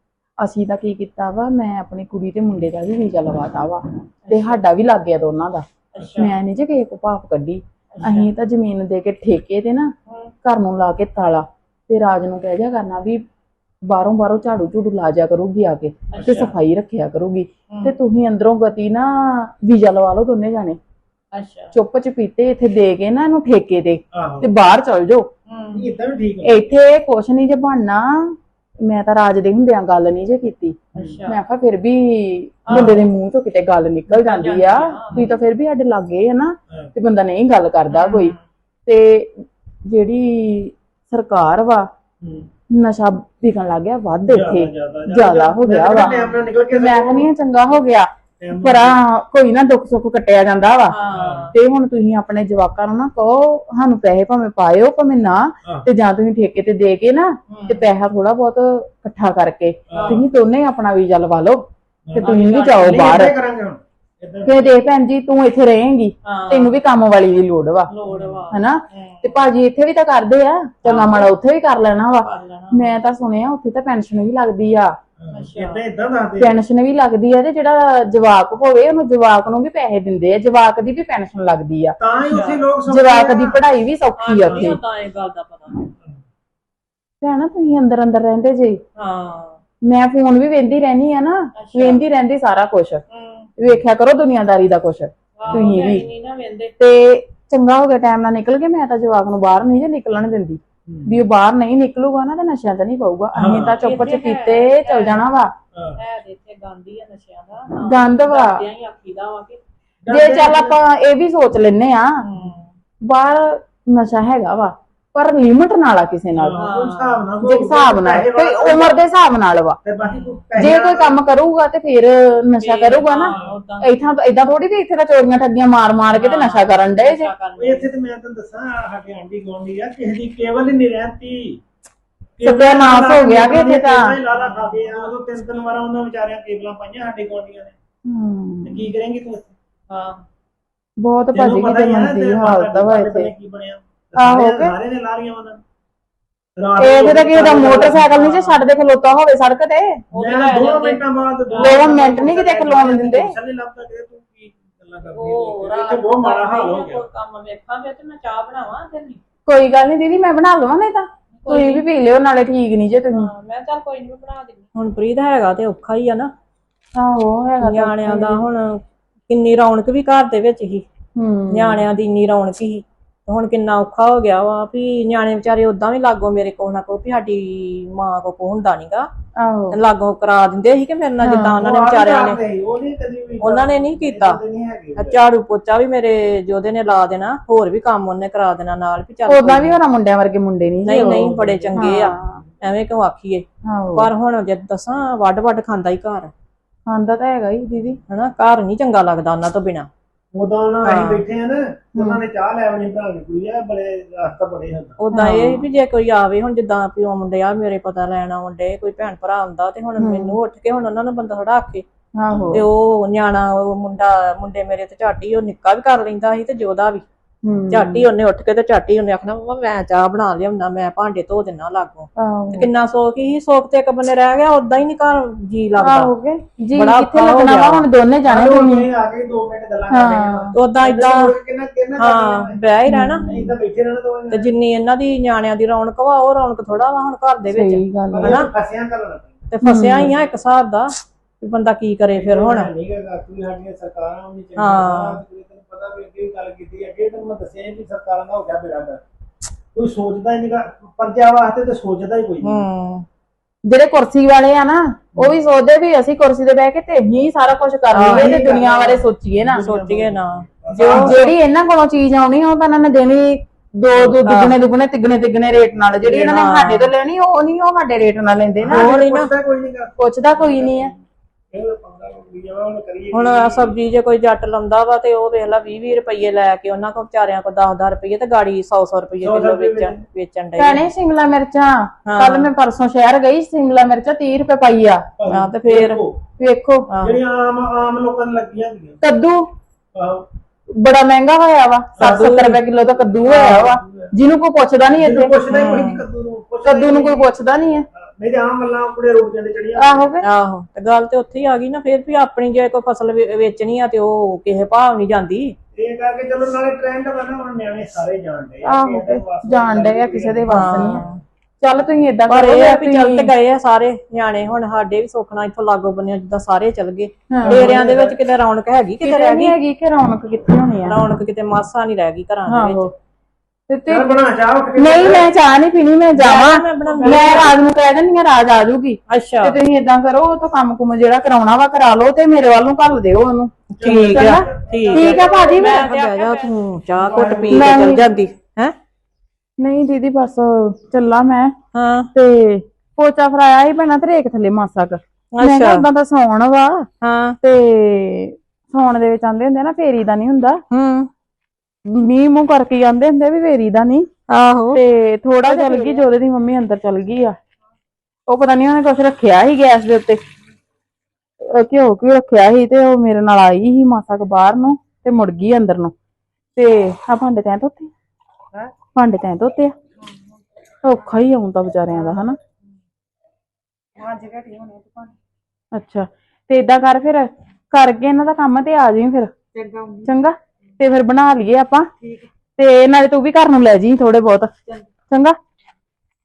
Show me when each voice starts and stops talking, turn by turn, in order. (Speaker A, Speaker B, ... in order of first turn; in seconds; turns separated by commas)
Speaker A: 0.4-9.9, Speaker B: 4.2-4.6, Speaker B: 6.0-6.3, Speaker B: 7.9-8.3, Speaker A: 10.4-13.2, Speaker A: 13.9-20.8, Speaker B: 16.1-16.5, Speaker C: 16.2-16.5, Speaker B: 17.7-17.9, Speaker B: 21.3-21.7, Speaker A: 21.7-25.3, Speaker C: 24.1-24.5, Speaker B: 25.5-25.9, Speaker C: 25.7-26.6, Speaker A: 26.4-38.4, Speaker C: 30.9-31.2, Speaker B: 30.9-31.4, Speaker B: 32.7-33.0, Speaker C: 32.7-33.0, Speaker B: 34.1-35.3, Speaker B: 37.9-38.4, Speaker A: 38.9-41.9, Speaker C: 42.2-42.5, Speaker A: 42.7-51.0, Speaker C: 44.3-47.3, Speaker C: 48.4-49.0, Speaker B: 50.9-51.5, Speaker C: 51.1-51.5, Speaker A: 51.5-61.6, Speaker B: 57.5-57.9, Speaker C: 59.9-60.2, Speaker B: 59.9-60.2, Speaker C: 62.1-64.7, Speaker B: 62.2-63.2, Speaker A: 62.2-63.3, Speaker A: 64.5-67.9, Speaker B: 66.2-66.8, Speaker B: 67.9-69.4, Speaker C: 68.1-68.4, Speaker A: 68.5-74.9, Speaker B: 70.8-71.3, Speaker B: 72.2-73.0, Speaker C: 75.2-76.6, Speaker B: 75.3-75.8, Speaker A: 76.4-82.0, Speaker C: 82.0-83.6, Speaker B: 82.3-82.7, Speaker A: 82.9-84.8, Speaker B: 84.2-85.9, Speaker A: 87.2-88.8, Speaker B: 89.0-89.6, Speaker A: 89.9-93.0, Speaker B: 91.6-92.0, Speaker B: 93.1-93.5, Speaker A: 93.6-96.1, Speaker B: 95.4-96.7, Speaker A: 96.8-105.5, Speaker C: 100.9-101.2, Speaker C: 103.4-103.8, Speaker B: 103.8-105.2, Speaker B: 106.0-109.6, Speaker A: 107.8-108.6, Speaker C: 110.0-110.8, Speaker A: 110.1-112.2, Speaker B: 112.2-112.7, Speaker A: 113.0-116.6, Speaker C: 116.3-119.0, Speaker B: 116.6-117.3, Speaker A: 117.4-119.8, Speaker C: 119.8-121.2, Speaker B: 120.1-120.4, Speaker A: 120.6-127.3, Speaker B: 122.6-124.1, Speaker B: 126.1-127.9, Speaker C: 127.6-131.6, Speaker C: 132.4-137.8, Speaker A: 132.4-134.2, Speaker B: 134.3-135.1, Speaker A: 138.1-138.9, Speaker C: 138.6-139.5, Speaker B: 139.9-140.2, Speaker A: 141.0-143.3, Speaker C: 141.3-145.6, Speaker A: 144.2-144.8, Speaker C: 146.6-148.1, Speaker A: 146.8-150.0, Speaker B: 147.4-148.6, Speaker B: 150.1-152.2, Speaker C: 150.2-157.0, Speaker A: 151.6-153.3, Speaker B: 155.1-159.2, Speaker A: 159.5-163.3, Speaker B: 161.4-161.8, Speaker B: 163.1-166.3, Speaker A: 166.9-168.4, Speaker B: 167.6-170.8, Speaker A: 171.2-171.8, Speaker B: 171.5-179.1, Speaker A: 179.4-179.8, Speaker B: 179.7-182.4, Speaker A: 181.2-181.6, Speaker C: 181.6-185.2, Speaker B: 183.4-184.4, Speaker B: 185.0-189.8, Speaker A: 189.3-192.4, Speaker B: 190.8-196.3, Speaker C: 191.0-191.7, Speaker A: 193.7-194.1, Speaker A: 196.9-198.0, Speaker B: 198.1-199.9, Speaker C: 200.3-205.0, Speaker B: 200.8-201.2, Speaker A: 202.0-202.2, Speaker B: 205.0-211.8, Speaker A: 205.1-205.6, Speaker A: 210.0-210.4, Speaker A: 212.2-212.6, Speaker B: 212.5-217.0, Speaker A: 217.4-218.1, Speaker B: 217.7-226.1, Speaker A: 222.2-222.7, Speaker A: 225.8-228.8, Speaker B: 226.7-227.9, Speaker C: 228.2-232.6, Speaker A: 229.9-230.6, Speaker B: 230.5-231.3, Speaker B: 232.0-233.3, Speaker A: 232.9-233.5, Speaker C: 233.2-234.5, Speaker B: 234.3-238.5, Speaker A: 237.5-238.4, Speaker C: 238.1-239.5, Speaker B: 239.5-242.7, Speaker A: 239.6-240.1, Speaker C: 242.2-249.0, Speaker B: 244.6-245.2, Speaker C: 249.8-252.7, Speaker B: 252.4-253.1, Speaker A: 253.7-259.6, Speaker B: 257.9-258.3, Speaker C: 258.0-261.3, Speaker B: 259.6-261.3, Speaker A: 260.7-268.9, Speaker B: 263.9-264.6, Speaker B: 266.1-266.9, Speaker C: 268.6-271.0, Speaker B: 268.7-269.3, Speaker A: 270.0-270.9, Speaker C: 271.5-273.8, Speaker B: 273.1-280.8, Speaker C: 279.2-280.0, Speaker A: 280.6-285.1, Speaker B: 282.1-282.5, Speaker C: 285.2-286.2, Speaker B: 285.3-286.0, Speaker A: 286.4-286.9, Speaker B: 286.9-287.2, Speaker C: 287.0-289.0, Speaker A: 289.0-289.4, Speaker C: 289.9-290.3, Speaker A: 290.8-295.4, Speaker C: 292.0-292.3, Speaker B: 292.0-292.6, Speaker B: 293.2-293.7, Speaker C: 293.3-294.1, Speaker C: 295.0-297.3, Speaker B: 295.5-296.0, Speaker A: 296.6-297.9, Speaker C: 298.0-300.1, Speaker A: 299.8-300.3, Speaker B: 300.2-305.6, Speaker C: 305.8-311.1, Speaker A: 308.6-311.0, Speaker B: 310.5-311.2, Speaker A: 311.6-313.3, Speaker B: 312.3-319.6, Speaker A: 317.3-317.7, Speaker C: 317.4-318.2, Speaker A: 319.0-321.0, Speaker B: 320.9-322.9, Speaker A: 322.5-322.9, Speaker A: 323.7-324.2, Speaker C: 323.9-325.3, Speaker A: 324.8-335.9, Speaker B: 326.1-327.5, Speaker C: 326.9-327.5, Speaker B: 329.1-329.6, Speaker B: 333.7-338.7, Speaker C: 333.8-336.2, Speaker C: 337.0-337.9, Speaker A: 337.2-338.0, Speaker A: 339.6-341.5, Speaker B: 341.7-342.1, Speaker A: 342.1-346.9, Speaker B: 345.4-345.8, Speaker B: 347.0-347.4, Speaker A: 347.4-350.6, Speaker B: 350.7-351.1, Speaker A: 351.9-354.1, Speaker B: 354.3-354.8, Speaker A: 354.7-357.4, Speaker B: 355.4-356.1, Speaker A: 358.3-360.2, Speaker A: 361.4-365.9, Speaker A: 366.6-367.9, Speaker A: 368.9-369.7, Speaker D: 370.0-370.4, Speaker A: 370.8-372.4, Speaker D: 371.9-372.2, Speaker D: 374.0-375.1, Speaker A: 375.7-379.3, Speaker D: 379.5-380.1, Speaker A: 380.1-381.9, Speaker D: 382.0-382.3, Speaker A: 382.6-384.5, Speaker A: 385.1-385.4